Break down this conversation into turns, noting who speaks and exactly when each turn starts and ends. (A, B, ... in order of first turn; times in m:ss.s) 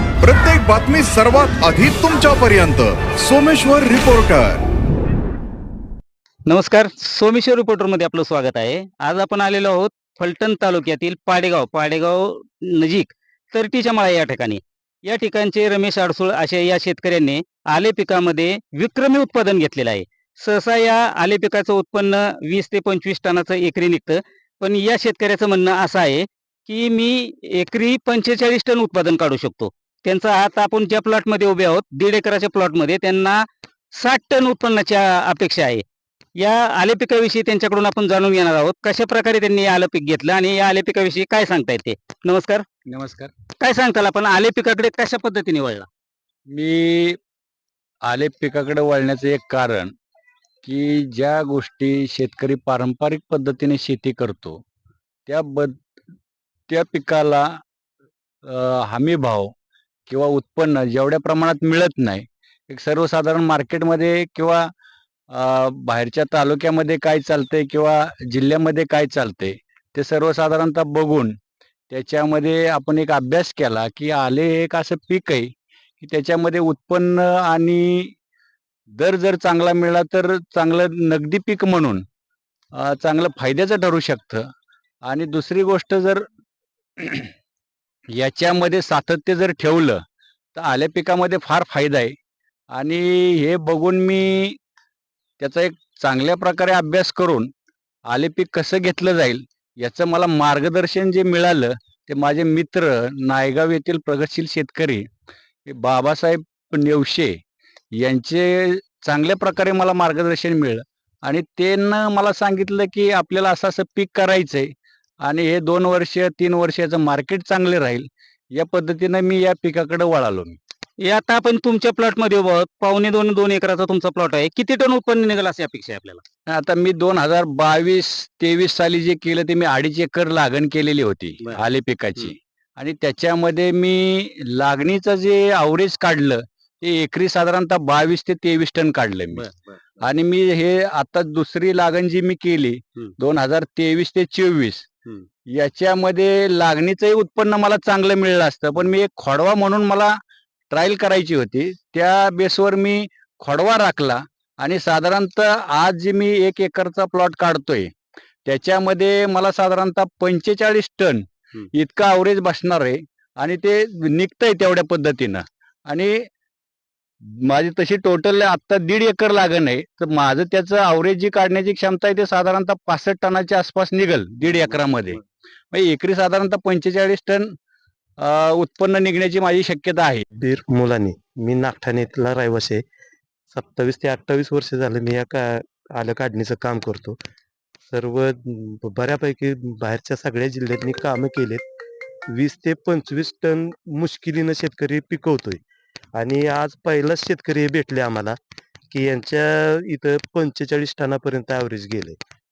0:00.2-0:04.6 A
0:06.5-0:33.4 B
0:34.0-0:35.8 B
0:36.4-0:42.7 B
0:42.9-0:43.3 C
0:43.6-0:45.9 B
0:46.5-0:47.2 C
0:48.0-0:49.9 C
0:50.6-0:54.6 C
0:55.3-0:55.8 C
0:56.7-0:57.6 C
0:58.4-0:59.5 C
1:00.1-1:04.7 C
1:05.3-1:11.4 C
1:11.9-1:18.1 C
1:18.9-1:22.0 C
1:22.7-1:24.5 C
1:25.0-1:26.2 C
1:27.0-1:27.3 C
1:28.1-1:30.0 C
1:30.6-1:32.2 C
1:32.7-1:34.6 C
1:35.4-1:37.5 C
1:38.1-1:45.1 C
1:45.7-1:47.4 C
1:47.9-1:54.7 C
1:55.2-2:00.6 C
2:01.0-2:06.2 B
2:06.5-2:19.4 C
2:19.3-2:19.8 B
2:20.0-2:24.9 C
2:25.5-2:30.2 C
2:30.7-2:37.9 C
2:38.4-2:46.2 C
2:47.2-2:57.5 C
2:58.2-3:00.3 C
3:00.4-3:02.8 D
3:03.5-3:07.2 D
3:07.9-3:11.6 D
3:12.3-3:15.6 D
3:16.2-3:18.4 D
3:18.9-3:22.2 D